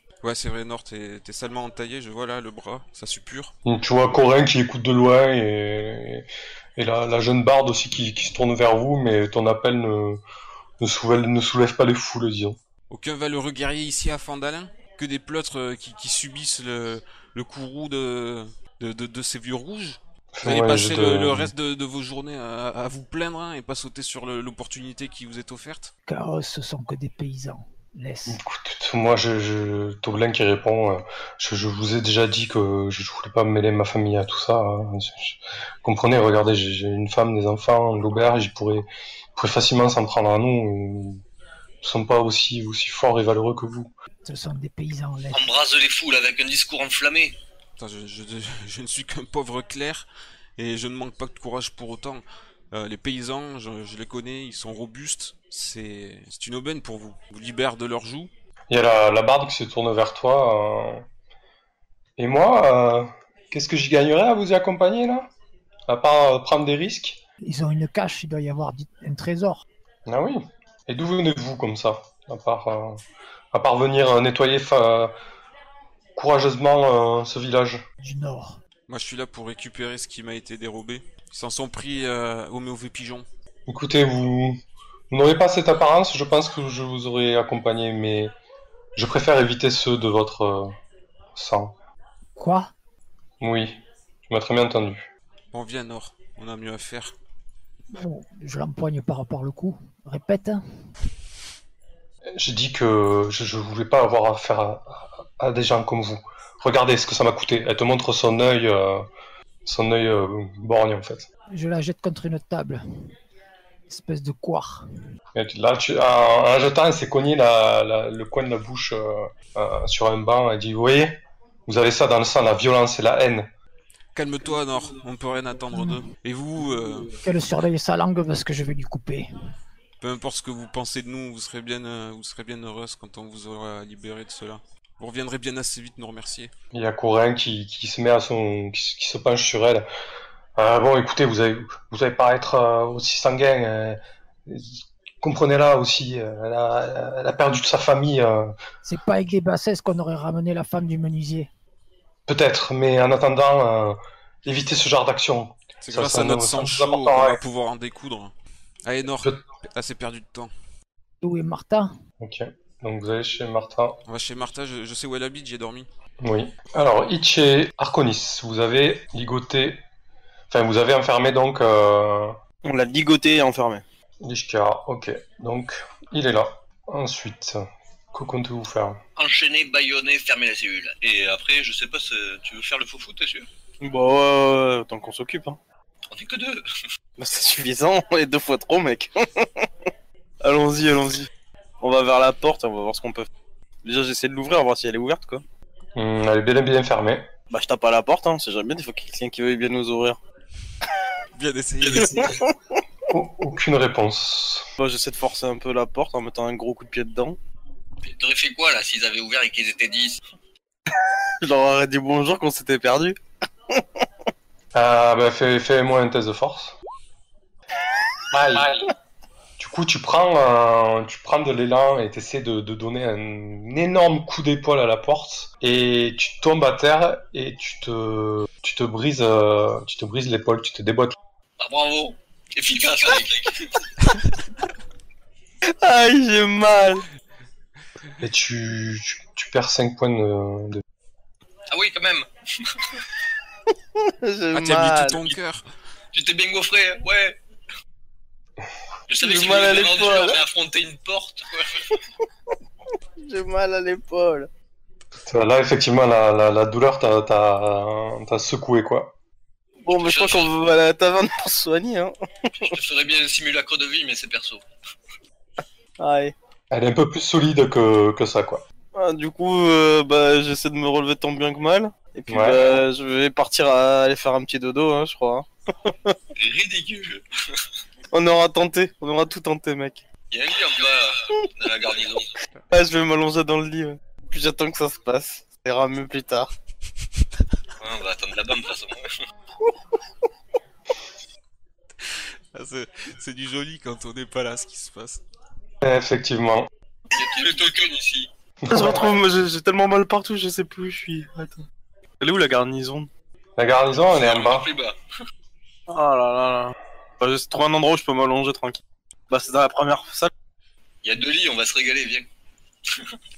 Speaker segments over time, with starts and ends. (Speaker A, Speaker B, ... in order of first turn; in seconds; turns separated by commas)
Speaker A: 0.2-3.5, Speaker B: 3.6-10.2, Speaker B: 10.8-12.6, Speaker A: 12.9-25.9, Speaker B: 20.4-21.5, Speaker C: 26.1-28.4, Speaker B: 28.3-41.2, Speaker B: 41.8-43.9, Speaker C: 44.2-45.5, Speaker D: 45.3-47.4, Speaker A: 47.8-50.0, Speaker A: 50.6-58.3, Speaker B: 58.7-61.1, Speaker B: 62.2-65.3, Speaker B: 65.9-67.2, Speaker C: 67.4-69.7, Speaker B: 70.1-75.1, Speaker B: 76.2-77.8, Speaker C: 78.0-78.6, Speaker A: 78.9-83.3, Speaker B: 83.7-88.3, Speaker B: 89.0-90.8, Speaker B: 91.3-91.8, Speaker C: 92.4-92.7, Speaker B: 93.4-95.1, Speaker A: 95.5-97.2, Speaker C: 97.9-100.6, Speaker B: 102.3-109.1, Speaker B: 109.7-111.3, Speaker C: 111.5-112.8, Speaker C: 113.9-114.9, Speaker B: 115.3-123.5, Speaker A: 124.2-127.2, Speaker C: 125.7-126.0, Speaker C: 127.2-129.3, Speaker A: 130.0-136.5, Speaker B: 136.7-139.9, Speaker B: 140.6-148.6, Speaker C: 148.8-151.5, Speaker B: 152.3-157.4, Speaker A: 155.8-158.3, Speaker A: 158.9-160.5, Speaker C: 161.2-161.9, Speaker B: 162.2-164.0, Speaker A: 164.1-165.9, Speaker B: 166.2-169.8, Speaker B: 170.5-172.4, Speaker E: 172.6-173.8, Speaker B: 174.2-179.0, Speaker D: 179.2-183.5, Speaker E: 183.8-185.6, Speaker D: 186.1-186.6, Speaker E: 187.2-189.7, Speaker E: 190.4-191.3, Speaker E: 191.8-193.3, Speaker E: 193.8-195.4, Speaker B: 196.0-197.3, Speaker E: 197.5-200.2, Speaker A: 201.3-202.4, Speaker E: 201.9-202.6, Speaker B: 203.1-204.7, Speaker E: 204.8-207.4, Speaker D: 208.0-210.2, Speaker E: 210.9-213.2, Speaker E: 213.7-214.1, Speaker B: 214.7-216.8, Speaker B: 218.3-218.9, Speaker B: 219.6-231.2, Speaker D: 231.6-233.9, Speaker E: 235.7-237.1, Speaker B: 238.2-240.8, Speaker D: 241.7-243.1, Speaker E: 243.9-245.3, Speaker A: 244.5-245.6, Speaker D: 246.1-247.4, Speaker D: 249.1-252.0, Speaker E: 249.2-250.4, Speaker E: 253.2-254.5, Speaker B: 255.3-259.1, Speaker E: 259.8-262.7, Speaker D: 259.9-260.5, Speaker D: 262.6-264.6, Speaker E: 266.0-266.3, Speaker B: 266.7-268.6, Speaker E: 268.9-276.2, Speaker B: 272.3-272.8, Speaker D: 276.4-277.6, Speaker E: 278.1-280.0, Speaker D: 280.3-282.4, Speaker E: 282.7-286.5, Speaker D: 287.8-289.2, Speaker A: 292.0-295.2, Speaker B: 295.8-296.7, Speaker D: 297.1-298.3, Speaker B: 298.6-299.1, Speaker E: 298.7-301.6, Speaker E: 302.2-303.1, Speaker B: 303.6-304.7, Speaker D: 304.0-305.0, Speaker E: 305.9-310.3, Speaker D: 311.0-312.3, Speaker D: 312.9-313.1